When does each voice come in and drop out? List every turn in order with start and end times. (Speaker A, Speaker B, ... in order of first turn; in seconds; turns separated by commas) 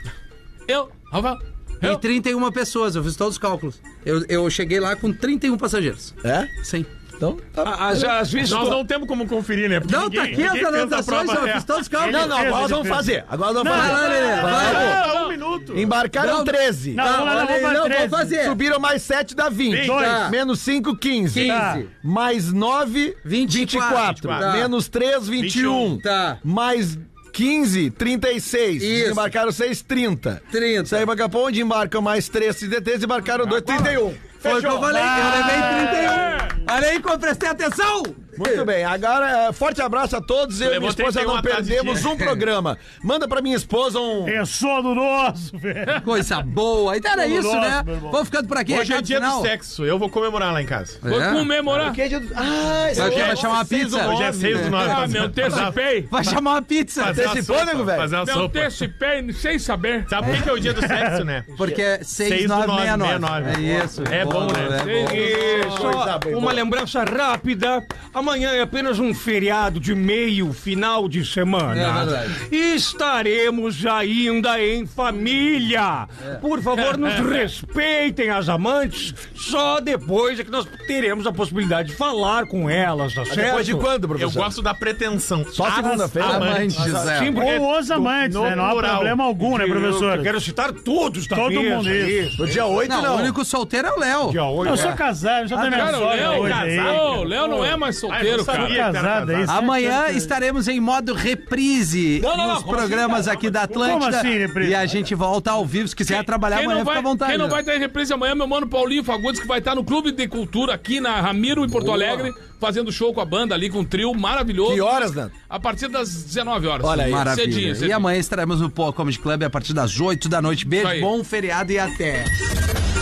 Speaker A: 0.7-2.0, Speaker B: 1.8-6.9, Speaker C: 6.2-6.5, Speaker C: 7.2-8.2, Speaker D: 7.6-8.8, Speaker E: 8.4-11.8, Speaker B: 9.8-12.5, Speaker F: 9.9-11.3, Speaker F: 11.9-14.7, Speaker C: 12.1-15.0, Speaker B: 13.6-15.1, Speaker E: 13.8-15.9, Speaker A: 14.7-15.3, Speaker C: 15.7-17.1, Speaker B: 16.1-18.6, Speaker F: 16.9-18.4, Speaker C: 18.4-35.1, Speaker B: 19.7-20.4, Speaker E: 19.7-20.0, Speaker F: 19.7-20.3, Speaker B: 21.3-21.9, Speaker F: 21.4-21.8, Speaker B: 23.2-24.7, Speaker E: 23.9-24.6, Speaker E: 25.4-26.0, Speaker B: 26.0-26.4, Speaker B: 28.8-29.3, Speaker B: 30.5-31.1, Speaker E: 33.6-34.0, Speaker B: 34.4-38.6, Speaker F: 34.9-36.5, Speaker C: 38.4-44.4, Speaker E: 40.6-42.1, Speaker F: 44.2-46.1, Speaker B: 46.0-49.5, Speaker F: 47.1-48.2, Speaker E: 48.7-51.0, Speaker B: 51.0-51.5, Speaker A: 51.0-52.0, Speaker C: 51.7-54.8, Speaker E: 52.9-56.4, Speaker B: 52.9-57.2, Speaker A: 54.8-56.1, Speaker E: 57.0-58.7, Speaker C: 57.0-58.1, Speaker A: 58.2-60.4, Speaker E: 60.1-61.5, Speaker B: 61.6-65.6, Speaker E: 62.1-64.9, Speaker A: 64.1-65.9, Speaker D: 65.0-83.9, Speaker C: 65.4-66.6, Speaker B: 71.7-72.4, Speaker C: 83.3-84.5, Speaker E: 84.1-89.2, Speaker C: 85.5-86.6, Speaker B: 86.2-87.4, Speaker D: 86.7-87.8, Speaker F: 87.3-90.3, Speaker D: 89.4-92.4, Speaker F: 91.3-92.2, Speaker C: 92.4-93.3, Speaker B: 92.8-94.4, Speaker D: 94.2-95.0, Speaker F: 94.6-97.2, Speaker A: 95.5-98.8, Speaker E: 95.7-99.6, Speaker F: 98.5-100.3, Speaker B: 99.5-107.6, Speaker D: 102.2-103.9, Speaker F: 103.8-105.0, Speaker A: 106.0-118.1, Speaker B: 111.7-112.3, Speaker C: 114.6-115.3, Speaker C: 116.8-117.7, Speaker B: 117.0-122.3, Speaker A: 120.8-121.1